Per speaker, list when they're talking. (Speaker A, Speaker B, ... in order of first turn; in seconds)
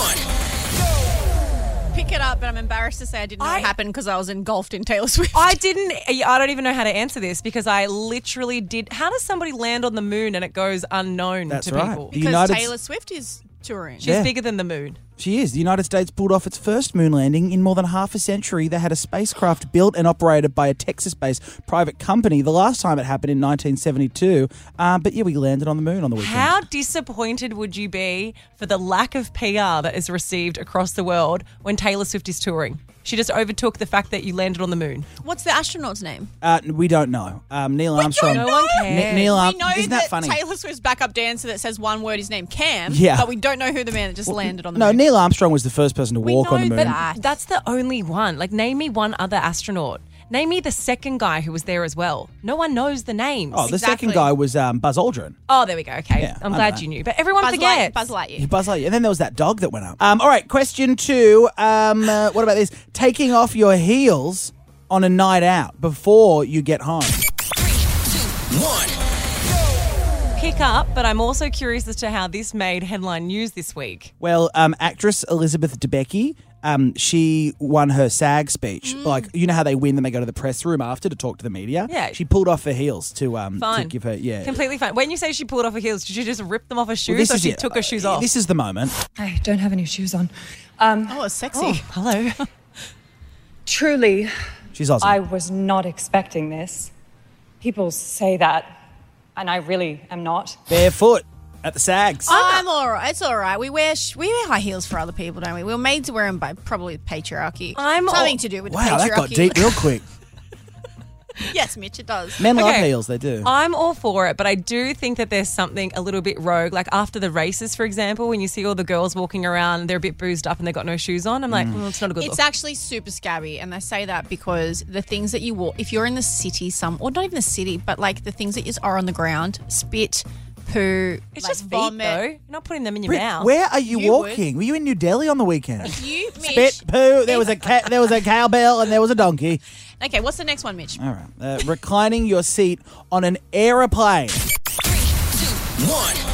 Speaker A: 1.9-5.6, 12.1-14.1, 35.2-36.3, 38.0-45.0, 46.2-47.2, 53.6-54.3, 57.4-58.5, 78.8-79.3, 91.1-91.9, 102.3-110.0, 111.4-112.5, 122.2-132.2, 133.8-134.4, 135.8-138.1, 140.0-141.0
Speaker B: 3.4-3.7, 5.3-12.1, 14.0-15.0, 26.2-35.0, 38.2-39.4, 46.7-53.6, 55.5-58.1, 70.4-74.1, 81.9-82.2, 83.6-88.3, 91.5-92.4, 102.3-102.6, 107.7-108.4, 112.5-122.4, 131.3-133.5
Speaker C: 11.5-12.7, 14.0-14.3, 15.2-26.6, 36.4-40.4, 42.9-43.3, 44.2-47.0, 53.5-55.4, 56.1-56.8, 58.4-67.2, 74.2-84.6, 87.1-88.9, 94.7-95.2, 100.7-102.3, 108.6-110.0, 112.4-113.5, 121.5-121.8, 133.1-139.6, 141.0-144.4
Speaker D: 89.1-91.2, 93.7-94.3, 95.0-96.9, 97.6-98.7, 99.3-100.8